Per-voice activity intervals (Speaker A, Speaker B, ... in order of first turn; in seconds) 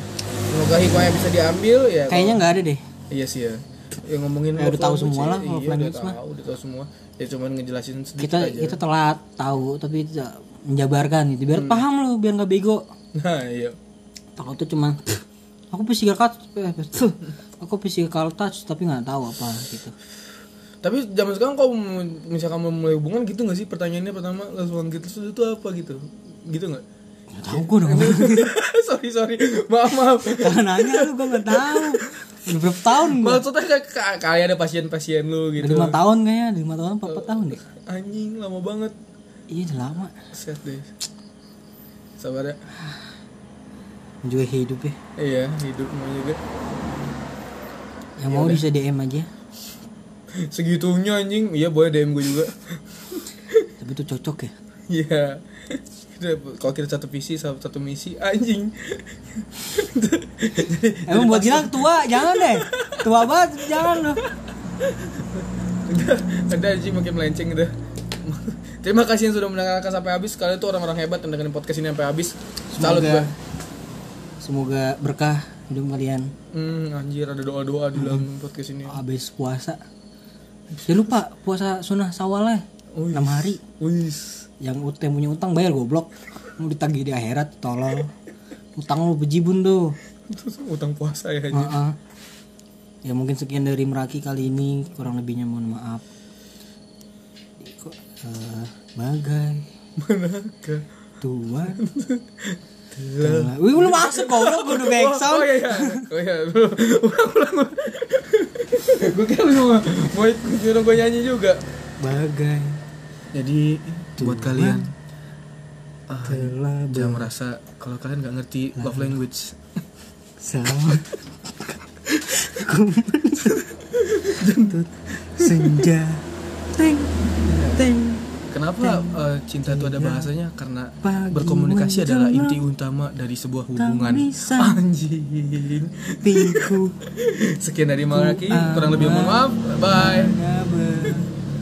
Speaker A: 0.5-2.4, 3.1-8.8, 11.5-11.8, 13.2-13.8, 20.8-26.8, 27.5-36.0, 37.1-39.0, 40.3-40.9, 42.2-42.6, 45.2-46.4, 48.3-48.6, 50.4-53.7, 54.9-73.3, 76.5-79.0, 80.8-81.1, 83.0-84.5, 90.3-91.8, 100.0-100.9, 101.7-111.6, 113.3-114.9, 116.1-119.6, 123.5-125.9, 127.4-127.8, 128.5-140.4
Speaker B: 2.1-2.8, 4.6-6.2, 8.2-12.8, 14.4-19.9, 27.4-28.5, 30.3-33.4, 35.6-37.6, 39.5-40.1, 44.2-45.0, 48.2-49.3, 53.8-54.5, 61.1-64.2, 72.7-73.3, 74.4-76.3, 78.0-78.2, 78.9-79.8, 80.9-83.6, 84.6-88.1, 88.8-90.0, 91.5-92.0, 93.0-96.0, 97.6-99.7, 101.2-101.8, 103.2-106.1, 112.0-112.8, 114.2-114.9, 116.2-117.3, 118.8-119.2, 120.4-123.7, 124.3-127.2, 127.7-130.3, 131.0-132.6, 133.8-134.8, 136.2-137.0, 138.1-141.3